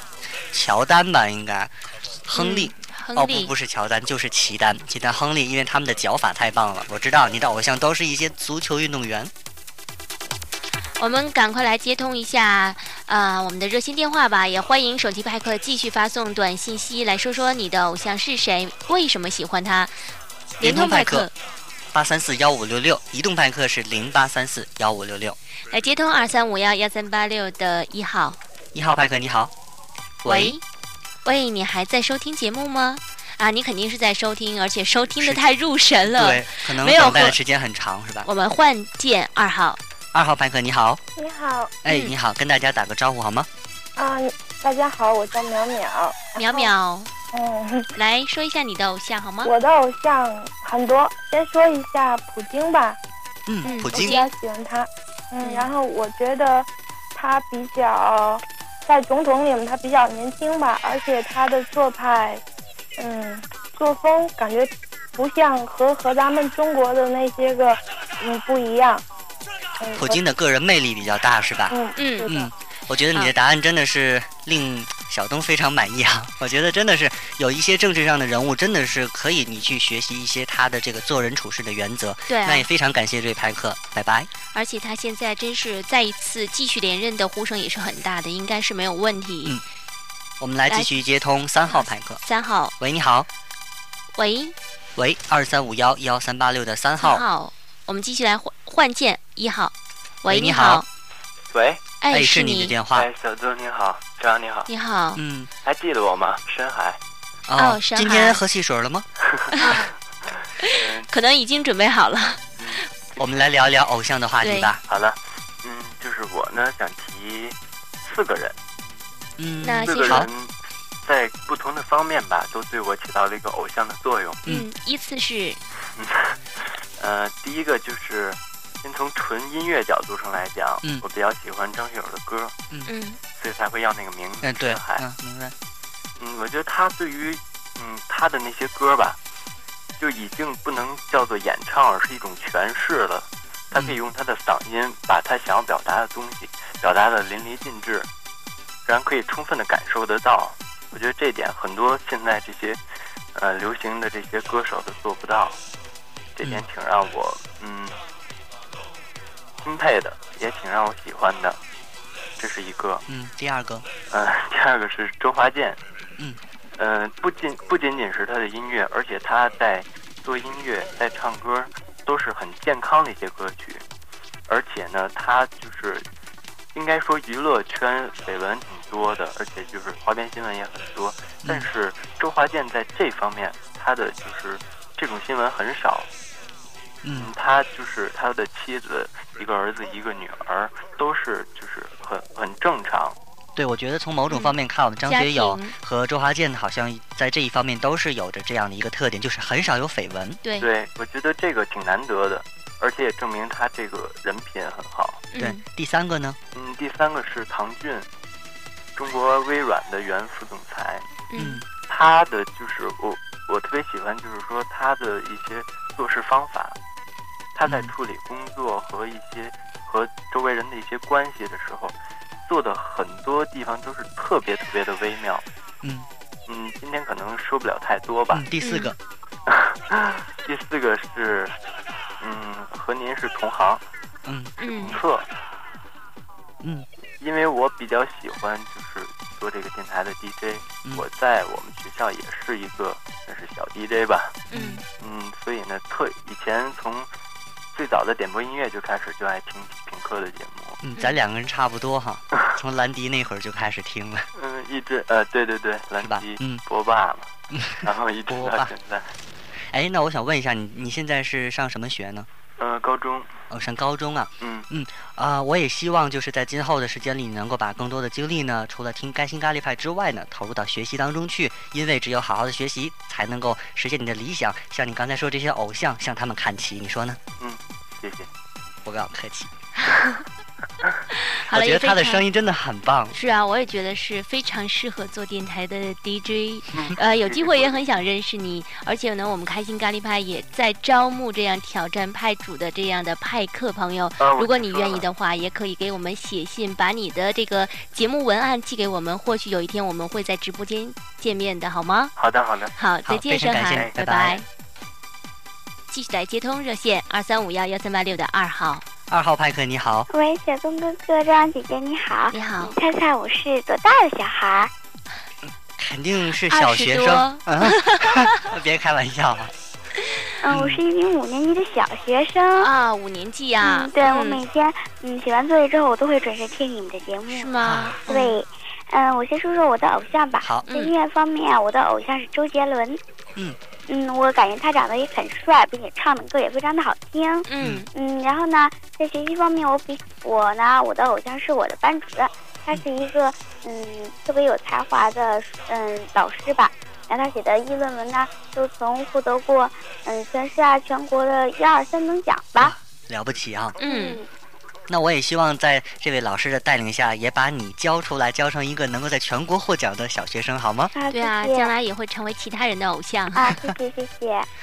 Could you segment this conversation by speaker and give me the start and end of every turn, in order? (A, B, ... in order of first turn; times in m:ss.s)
0:00.5-0:01.7 A
0:02.2-0:09.3 A
0:02.3-0:03.5 B
0:11.0-0:19.9 B
0:20.6-0:21.3 B
0:20.6-0:21.3 A
0:21.9-0:25.4 A
0:25.7-0:28.4 B
0:28.7-0:29.5 A
0:30.2-0:30.6 A
0:30.2-0:30.6 B
0:31.2-0:37.4 B
0:35.1-0:35.4 A
0:36.0-0:38.3 A
0:38.2-0:39.8 B
0:40.1-0:41.0 A
0:41.2-0:41.8 C
0:41.8-0:43.5 A
0:41.9-0:42.1 B
0:44.0-0:46.7 C
0:46.4-0:47.1 B
0:47.3-0:47.9 C
0:47.9-0:49.5 B
0:49.4-0:53.0 C
0:53.5-0:54.2 A
0:53.6-0:54.3 B
0:53.8-1:02.4 C
0:55.4-0:55.7 B
1:03.0-1:09.0 C
1:09.8-1:10.2 C
1:10.0-1:24.3 A
1:11.7-1:12.5 C
1:12.0-1:12.3 B
1:22.3-1:22.7 B
1:24.5-1:29.6 B
1:30.4-1:32.2 A
1:30.7-1:31.0 B
1:31.7-1:32.7 B
1:32.8-1:33.3 A
1:34.2-1:34.5 B
1:35.0-1:37.2 A
1:37.0-1:40.8 B
1:40.3-1:40.8 A
1:41.5-1:41.8 D
1:42.0-1:42.7 B
1:42.1-1:43.1 A
1:42.9-1:44.7 D
1:44.7-1:45.2 B
1:45.2-1:45.5 A
1:45.6-1:47.0 D
1:47.5-1:49.0 A
1:47.6-1:48.4 B
1:49.6-1:49.9 B
1:50.3-1:51.1 D
1:50.6-1:52.8 B
1:53.2-1:54.8 A
1:54.4-1:54.7 B
1:54.9-1:58.6 D
1:59.4-2:00.3 A
1:59.6-2:00.3 B
1:59.8-2:00.5 D
2:01.0-2:04.4 D
2:04.4-2:05.6 B
2:05.9-2:12.5 D
2:12.9-2:13.2 B
2:13.4-2:15.0 D
2:14.4-2:15.5 A
2:16.2-2:19.2 D
2:20.0-2:28.1 D
2:28.8-2:32.8 D
2:33.3-2:35.6 D
2:36.4-2:38.0 D
2:39.6-2:41.6 D
2:42.4-2:43.0 D
2:43.1-2:43.8 A
2:44.1-2:45.8 D
2:46.8-2:53.8 D
2:54.5-2:56.0 D
2:56.7-3:06.1 D
3:07.0-3:07.3 A
3:07.1-3:13.2 D
3:13.6-3:20.4 A
3:14.3-3:15.7 B
3:20.6-3:25.2 D
3:25.3-3:25.6 B
3:25.4-3:26.4 A
3:26.5-3:28.1 D
3:29.0-3:31.0 D
3:31.3-3:31.6 B
3:31.4-3:31.6 A
3:31.9-3:36.8 D
3:37.5-3:45.4 D
3:37.7-3:37.9 A
3:45.8-3:46.1 A
3:46.5-3:48.4 D
3:48.3-3:49.0 A
3:48.6-3:48.9 B
3:49.5-3:51.5 D
3:52.2-3:53.8 D
3:54.2-3:54.5 A
3:54.6-3:55.0 B
3:54.8-3:55.3 D
3:57.2-4:04.4 D
4:04.5-4:04.8 A
4:04.5-4:04.8 B
4:05.0-4:07.1 D
4:07.7-4:10.8 D
4:10.8-4:14.3 A
4:14.3-4:17.3 D
4:16.0-4:16.6 A
4:17.5-4:18.7 A
4:17.8-4:19.1 D
4:19.7-4:22.3 A
4:22.6-4:23.3 D
4:23.5-4:37.2 A
4:37.4-4:38.3 D
4:38.8-4:39.5 A
4:39.9-4:40.2 B
4:41.4-4:42.2 B
4:41.5-4:43.1 A
4:43.1-5:02.1 B
4:46.7-4:47.8 D
4:54.2-4:55.1 D
5:02.2-5:02.7 D
5:02.8-5:04.4 B
5:03.0-5:04.4 A
5:05.9-5:08.8 B
5:09.1-5:10.1 A
5:10.1-5:14.7 E
5:12.3-5:12.8 B
5:15.8-5:19.5 A
5:16.5-5:18.2 B
5:20.4-5:22.7 E
5:20.5-5:20.8 A
5:22.6-5:24.4 B
5:23.6-5:33.0 E
5:27.3-5:28.4 B
5:27.6-5:28.0 A
5:30.4-5:30.7 A
5:30.7-5:30.9 B
5:33.9-5:52.7 E
5:37.5-5:37.9 B
5:52.6-5:53.8 A
5:53.8-5:54.3 E
5:53.8-5:54.2 B
5:54.9-6:00.9 A
6:00.9-6:01.7 E
6:01.1-6:03.6 B
6:03.3-6:04.5 E